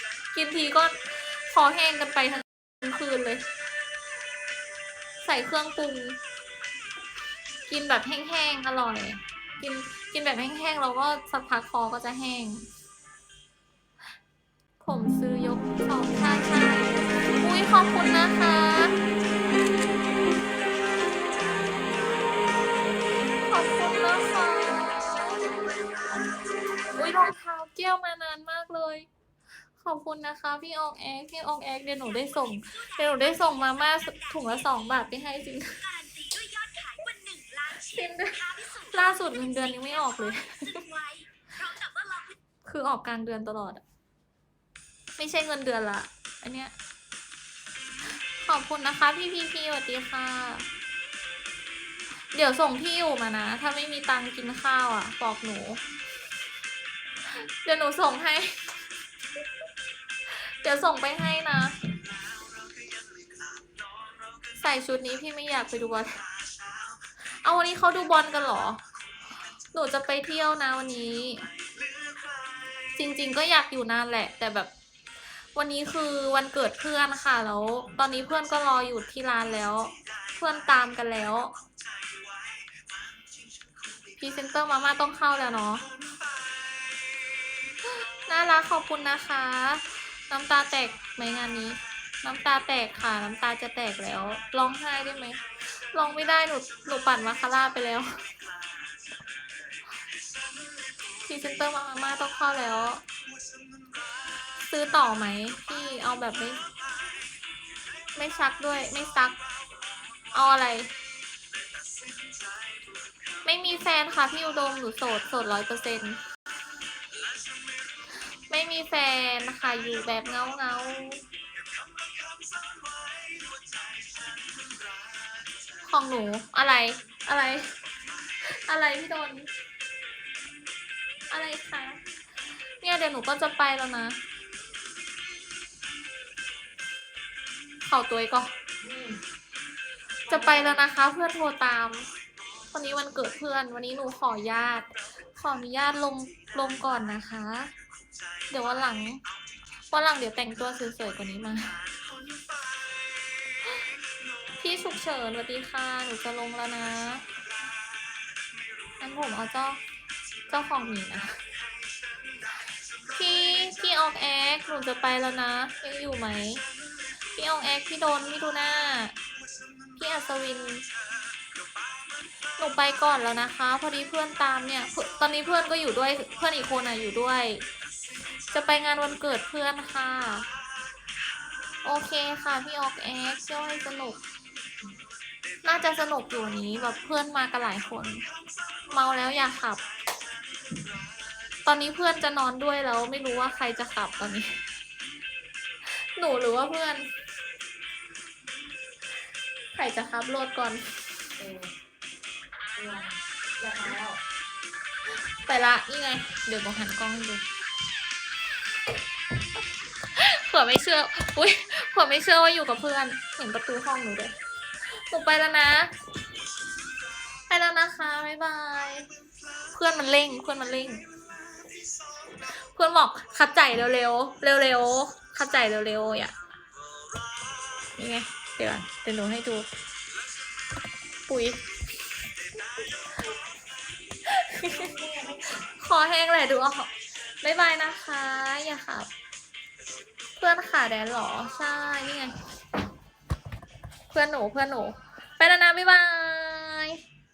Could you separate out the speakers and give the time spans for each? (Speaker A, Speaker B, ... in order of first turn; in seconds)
Speaker A: 0.3-3.5, 5.2-6.2, 7.7-12.7, 14.8-19.0, 23.4-25.5, 26.9-29.1, 29.8-36.0, 37.7-41.1, 42.6-43.8, 45.2-46.7, 48.4-50.7, 52.3-55.8, 57.3-58.7, 60.3-61.9, 64.5-66.3, 67.2-68.8, 69.7-71.5, 72.8-74.7, 75.5-81.6, 84.2-86.0, 87.8-98.2, 101.1-103.0, 104.6-106.7, 108.1-109.4, 110.3-110.9, 113.4-116.2, 118.5-121.2, 125.8-127.8, 128.4-129.5, 131.3-134.2, 137.8-138.5, 140.3-142.1, 142.7-147.7, 148.5-149.2, 149.9-152.0, 154.5-157.3, 159.0-159.8, 160.5-161.5, 163.0-169.2, 169.9-170.9, 172.6-177.7, 178.5-180.5, 181.8-184.2, 185.6-188.2, 188.9-189.8, 191.6-194.6, 195.8-197.1, 199.7-200.9, 205.4-207.4, 210.1-214.3, 214.9-215.9, 217.5-221.2, 222.2-226.4, 227.8-229.7, 231.2-231.7, 232.8-233.4, 234.1-234.9, 235.5-239.1, 240.4-242.4, 244.1-247.0
Speaker B: 36.0-37.6, 41.8-42.3
Speaker C: 122.0-124.0, 138.8-139.2, 201.4-201.7, 202.7-204.2, 234.7-235.6